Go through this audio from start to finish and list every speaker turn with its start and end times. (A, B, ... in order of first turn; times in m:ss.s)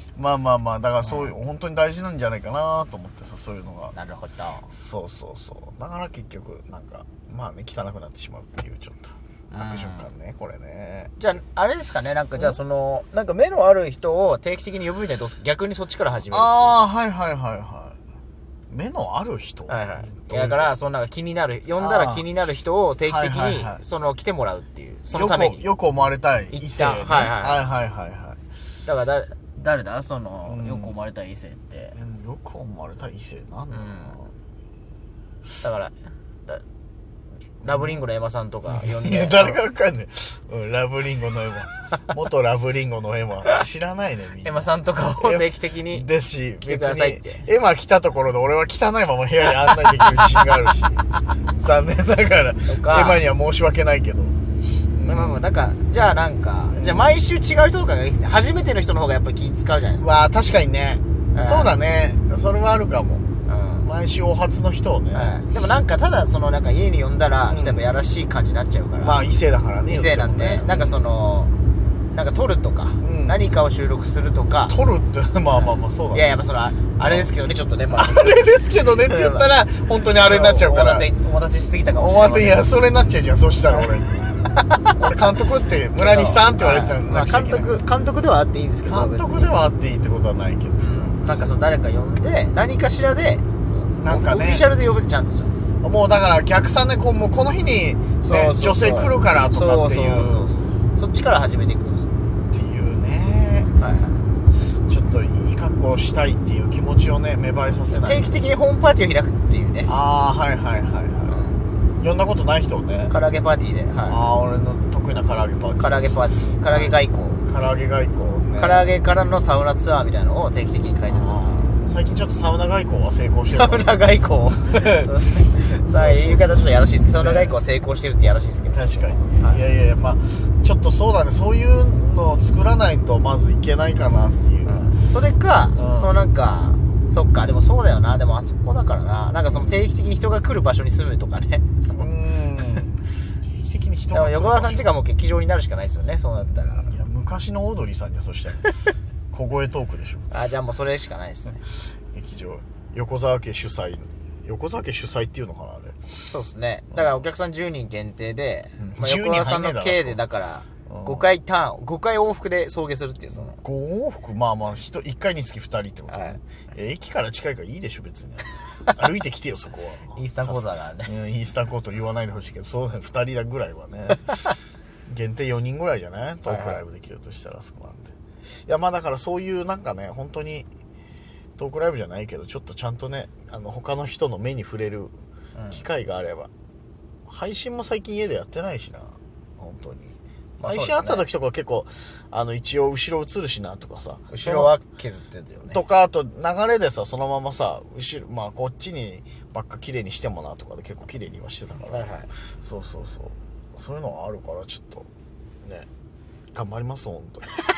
0:00.2-0:03.9 A
0:01.0-0:01.3 B
0:03.9-0:04.7 B
0:04.7-0:11.1 A
0:09.5-0:10.1 B
0:11.2-0:16.8 B
0:16.3-0:18.0 A
0:18.7-0:20.7 A
0:19.7-0:25.7 B
0:21.8-0:22.2 A
0:23.0-0:23.8 A
0:25.1-0:28.4 A
0:26.5-0:27.6 B
0:28.8-0:32.0 B
0:30.4-0:30.9 A
0:31.9-0:34.3 A
0:33.7-0:34.2 B
0:35.6-0:35.9 B
0:37.6-0:38.0 A
0:37.6-0:39.6 B
0:38.7-0:51.0 A
0:44.4-0:46.1 B
0:46.6-0:47.5 B
0:49.9-0:50.2 B
0:51.6-0:54.4 A
0:52.7-0:53.2 B
0:54.9-0:55.4 A
0:55.0-1:00.1 B
0:56.7-0:57.2 A
1:00.0-1:03.2 A
1:01.3-1:01.8 B
1:03.4-1:03.9 B
1:03.8-1:05.4 A
1:05.1-1:09.2 B
1:07.5-1:07.8 A
1:09.0-1:11.0 A
1:09.9-1:11.5 B
1:12.1-1:14.8 B
1:13.0-1:13.4 A
1:14.6-1:16.3 A
1:15.5-1:19.5 B
1:17.0-1:17.3 A
1:17.9-1:21.1 A
1:20.0-1:22.7 B
1:21.9-1:24.3 A
1:23.7-1:25.2 B
1:25.0-1:27.8 A
1:26.0-1:29.6 B
1:28.8-1:31.2 A
1:30.8-1:35.5 B
1:34.0-1:34.7 A
1:35.8-1:40.5 A
1:38.2-1:42.1 B
1:42.5-1:43.7 A
1:43.8-1:44.2 B
1:44.8-1:48.4 A
1:47.9-1:49.9 B
1:49.9-1:51.4 A
1:51.3-1:51.6 B
1:52.0-1:53.1 A
1:53.1-1:54.2 B
1:54.1-1:58.9 A
1:55.8-1:57.4 B
1:58.5-2:01.6 B
2:01.1-2:04.0 A
2:03.5-2:09.6 B
2:04.7-2:07.5 A
2:08.7-2:14.9 A
2:14.6-2:22.1 B
2:15.7-2:16.2 A
2:22.0-2:23.0 A
2:23.5-2:24.9 A
2:24.1-2:26.9 B
2:26.4-2:28.7 A
2:29.3-2:30.3 A
2:30.3-2:31.6 B
2:32.1-2:36.0 A
2:36.3-2:43.6 B
2:36.9-2:37.2 A
2:38.8-2:40.2 A
2:40.9-2:41.3 A
2:43.3-2:54.5 A
2:46.1-2:46.4 B
2:50.1-2:51.1 B
2:55.0-3:00.7 A
2:56.4-2:56.8 B
3:01.6-3:05.1 A
3:05.5-3:05.8 B
3:05.7-3:06.5 A
3:07.2-3:14.7 A
3:10.6-3:11.3 B
3:14.3-3:15.8 B
3:15.6-3:25.1 A
3:21.9-3:22.3 B
3:26.5-3:27.5 A